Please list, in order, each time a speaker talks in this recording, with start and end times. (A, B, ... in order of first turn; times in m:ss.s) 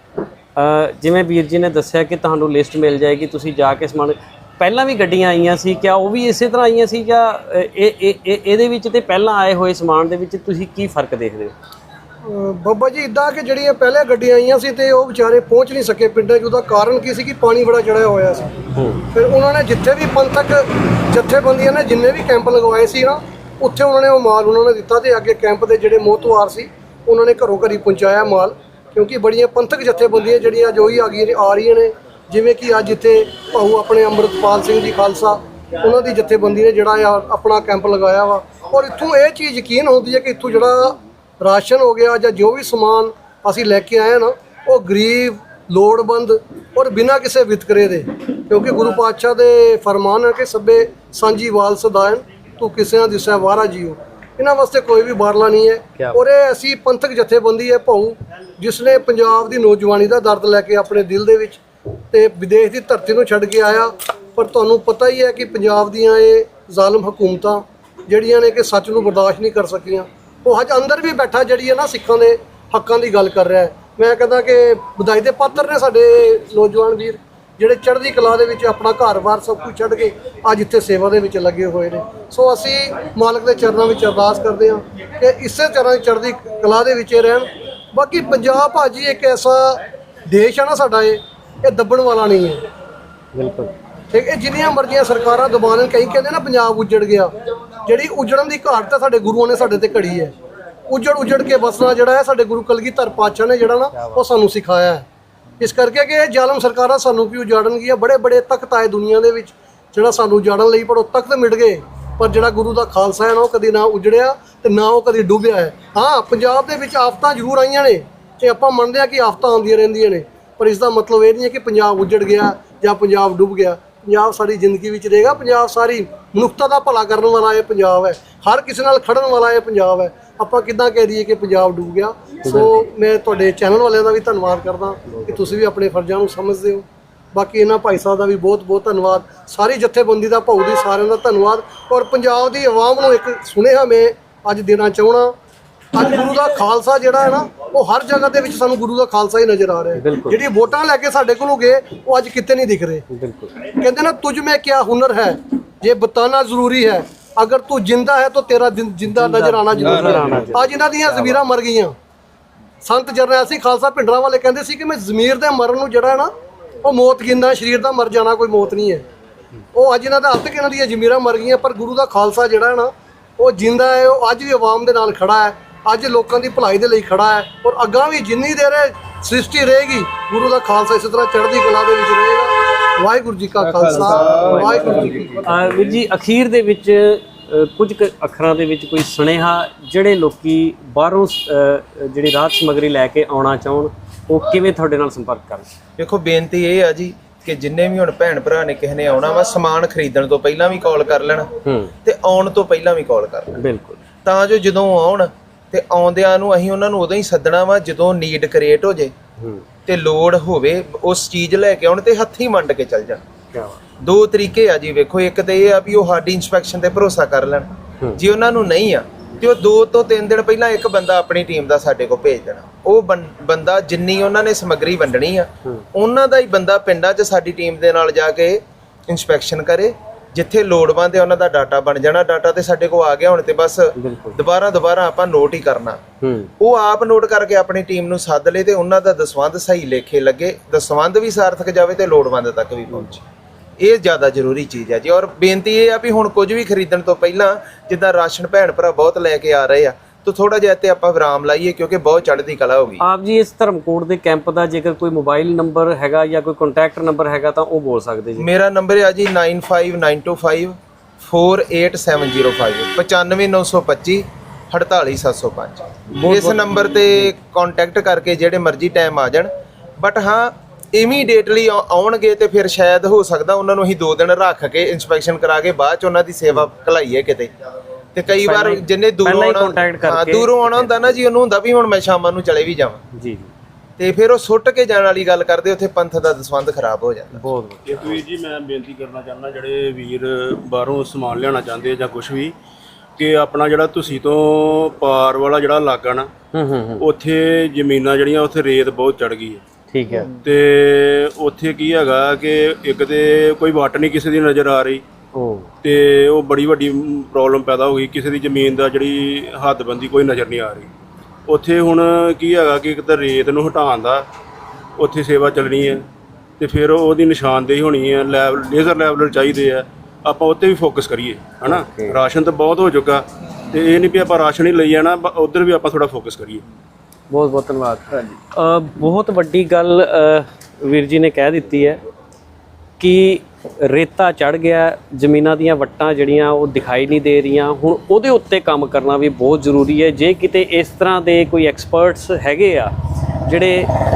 0:00.6-0:11.5 A
0:12.2-0:18.5 B
0:18.8-0:19.0 A
0:19.1-1:01.6 B
1:02.1-1:32.6 B
1:33.4-1:33.7 A
1:34.1-1:37.3 B
1:37.9-1:40.3 B
1:40.9-1:45.0 B
1:45.6-2:25.3 B
2:12.4-2:12.8 A
2:15.1-2:15.4 A
2:26.0-2:33.0 B
2:30.0-2:30.4 A
2:33.1-2:33.6 A
2:33.7-2:42.0 B
2:39.1-2:41.4 A
2:42.8-2:46.3 B
2:46.8-2:49.0 B
2:49.7-3:05.5 B
3:04.2-3:15.7 A
3:16.0-3:21.5 C
3:21.6-3:21.9 A
3:22.0-3:23.6 C
3:23.6-3:24.0 A
3:24.2-3:29.1 C
3:29.4-3:29.6 A
3:29.9-3:33.2 C
3:33.5-3:33.8 A
3:34.0-3:56.0 C
3:54.0-3:54.4 A
3:56.2-3:56.5 A
3:56.6-4:03.2 C
4:03.8-4:13.0 C
4:13.0-4:18.5 A
4:18.4-4:37.5 C
4:26.2-4:26.6 A
4:38.2-4:43.0 C
4:38.3-4:41.2 A
4:43.1-4:43.5 A
4:44.0-4:47.5 C
4:47.4-4:48.2 A
4:47.9-4:52.6 D
4:53.2-4:56.3 D
4:56.5-4:57.0 A
4:57.0-4:59.6 D
4:59.9-5:00.4 A
5:00.4-5:05.0 D
5:05.3-5:05.7 A
5:05.8-5:10.9 D
5:11.5-5:14.3 D
5:15.0-5:16.0 D
5:16.6-5:26.6 D
5:21.6-5:22.2 A
5:27.3-5:32.0 A
5:33.0-5:42.9 A
5:43.4-5:43.9 A